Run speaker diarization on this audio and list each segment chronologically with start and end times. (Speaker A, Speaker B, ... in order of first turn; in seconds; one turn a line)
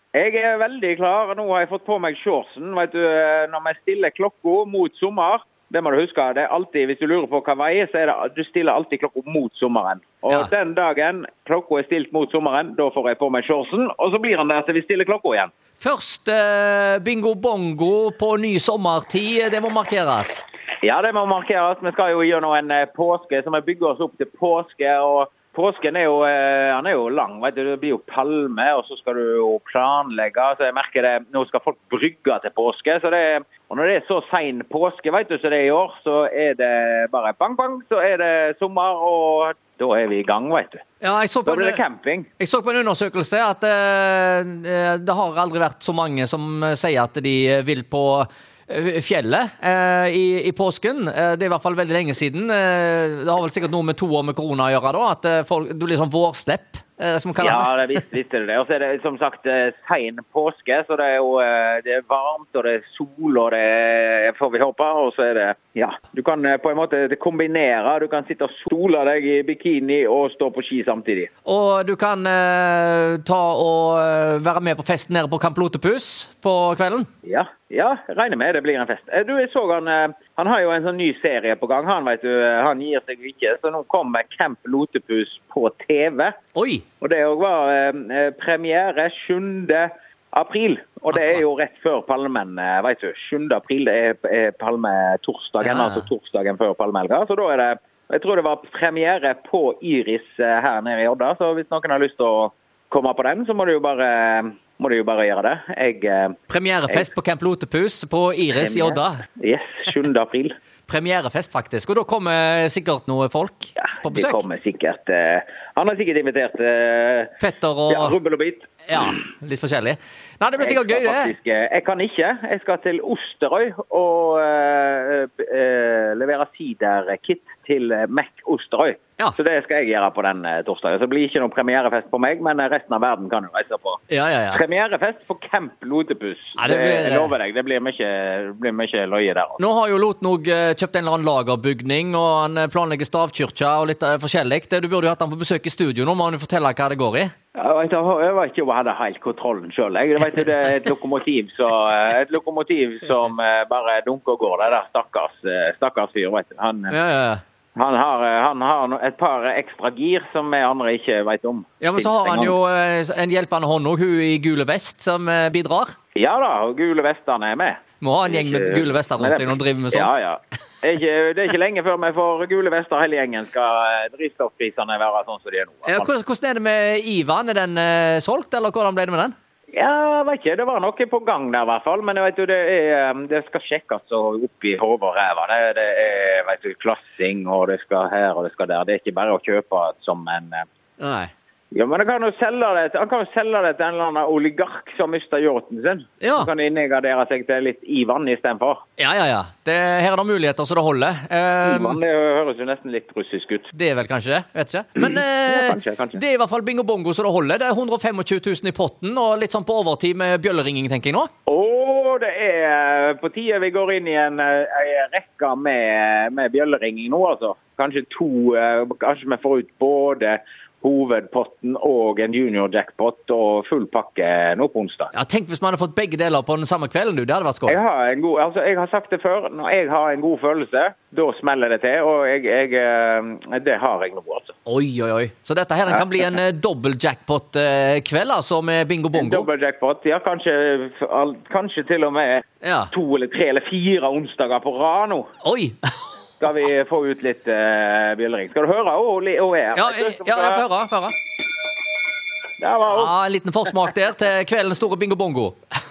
Speaker A: 0.1-15.5
Speaker B: 15.8-20.4
Speaker A: 20.8-40.8
Speaker B: 41.0-41.8
Speaker A: 41.4-42.3
Speaker B: 42.4-58.0
Speaker A: 57.4-71.3
Speaker B: 71.4-77.1
Speaker A: 77.2-86.3
Speaker B: 86.5-86.8
Speaker A: 87.0-106.3
Speaker B: 91.1-91.4
Speaker B: 95.6-96.0
Speaker B: 106.5-109.2
Speaker A: 108.5-110.5
Speaker B: 110.9-114.4
Speaker A: 113.8-117.3
Speaker B: 117.4-118.2
Speaker A: 117.9-119.2
Speaker B: 118.9-121.3
Speaker A: 120.6-139.6
Speaker B: 134.1-134.6
Speaker B: 136.6-137.3
Speaker B: 139.6-147.3
Speaker A: 147.6-156.9
Speaker B: 156.9-157.4
Speaker A: 157.7-162.6
Speaker B: 161.8-165.9
Speaker A: 166.2-176.1
Speaker B: 168.0-170.1
Speaker B: 175.8-179.3
Speaker A: 179.7-190.6
Speaker B: 191.0-191.3
Speaker A: 191.7-198.8
Speaker B: 196.2-196.5
Speaker B: 199.0-202.0
Speaker A: 201.6-203.7
Speaker B: 203.7-211.3
Speaker A: 205.0-206.2
Speaker A: 211.5-225.1
Speaker B: 225.1-227.8
Speaker A: 227.7-234.6
Speaker B: 234.7-239.5
Speaker A: 239.1-245.3
Speaker B: 242.6-242.9
Speaker B: 245.4-245.8
Speaker A: 246.4-250.7
Speaker B: 249.7-251.2
Speaker A: 252.6-253.1
Speaker B: 252.9-255.6